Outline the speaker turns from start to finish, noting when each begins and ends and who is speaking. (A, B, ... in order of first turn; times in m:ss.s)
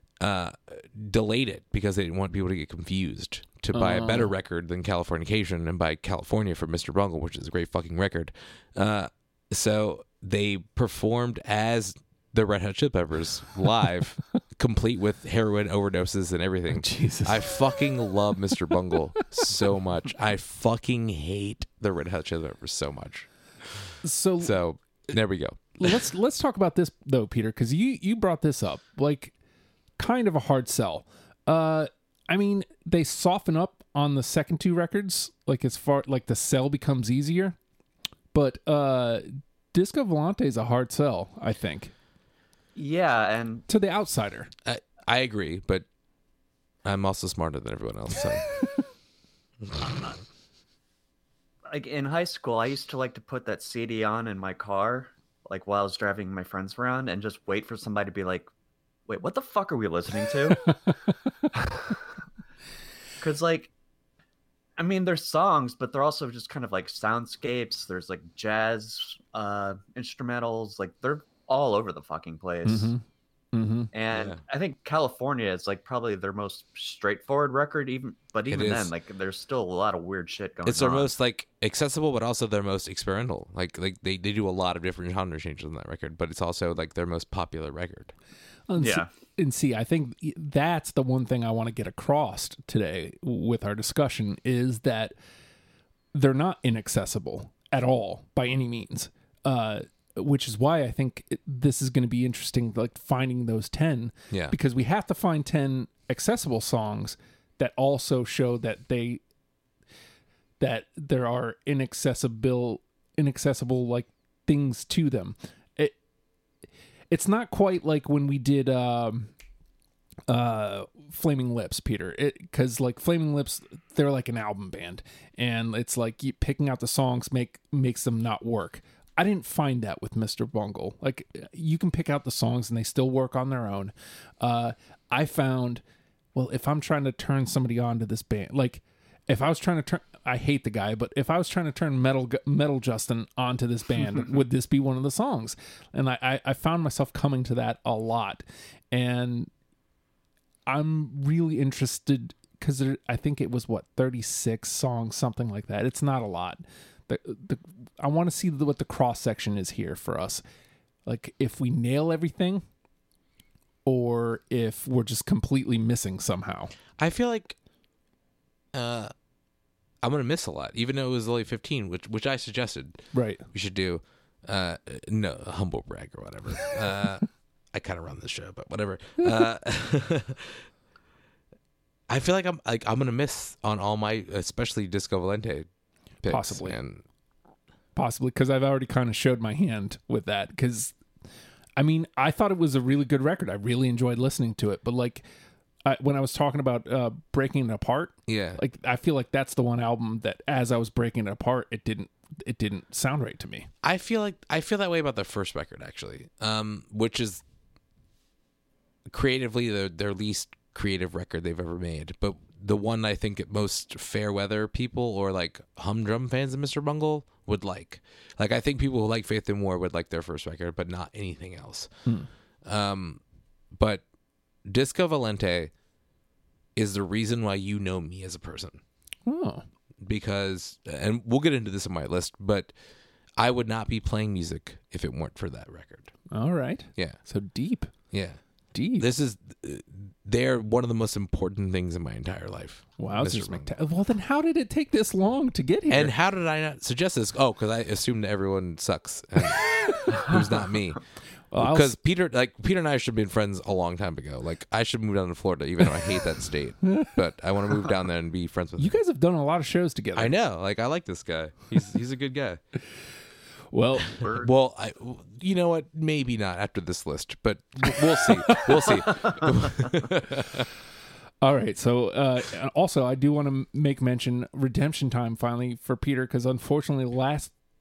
0:00.2-0:23.3 A
0:03.7-0:04.3 B
0:16.7-0:17.9 B
0:24.0-0:24.6 B
0:24.4-0:26.0 A
0:25.8-0:29.3 B
0:30.0-0:37.6 B
0:38.3-0:41.9 B
0:42.8-0:43.6 C
0:43.7-0:44.5 B
0:44.6-0:45.8 A
0:46.8-0:48.4 A
0:49.6-0:50.1 A
0:51.7-0:58.5 C
0:59.1-1:00.9 C
1:01.5-1:02.0 C
1:03.2-1:03.7 C
1:04.8-1:12.9 C
1:12.6-1:13.9 B
1:13.9-1:21.1 C
1:14.1-1:14.4 A
1:18.5-1:18.9 A
1:20.6-1:28.1 A
1:28.7-1:35.1 B
1:28.8-1:29.1 C
1:36.1-1:49.2 B
1:44.3-1:44.5 A
1:50.6-1:56.0 B
1:57.1-1:59.3 B
2:00.3-2:15.8 B
2:16.3-2:29.5 B
2:30.7-2:40.4 B
2:41.0-2:42.6 B
2:43.8-2:46.7 B
2:47.0-2:47.6 A
2:48.7-2:49.1 A
2:50.0-3:00.7 A
2:53.1-2:53.4 B
3:02.1-3:05.7 A
3:06.2-3:07.0 A
3:06.3-3:06.8 B
3:07.9-3:11.0 B
3:11.8-3:15.2 B
3:15.8-3:23.7 B
3:18.3-3:18.6 A
3:23.8-3:27.4 A
3:29.1-3:41.9 A
3:42.6-3:43.2 A
3:43.7-3:44.0 A
3:44.6-3:45.7 A
3:46.8-3:48.8 A
3:49.2-3:49.6 B
3:50.0-3:52.7 A
3:53.4-3:56.1 A
3:56.3-3:57.9 B
3:58.1-3:58.4 A
3:58.7-3:59.1 B
3:59.0-4:03.7 A
4:03.0-4:06.1 B
4:05.9-4:11.0 A
4:09.4-4:10.2 B
4:11.5-4:11.9 B
4:11.6-4:19.0 A
4:16.8-4:17.1 B
4:18.8-4:20.4 B
4:20.2-4:22.6 A
4:23.7-4:24.2 B
4:24.2-4:24.5 C
4:24.2-4:30.7 A
4:27.9-4:29.0 B
4:31.4-4:37.5 B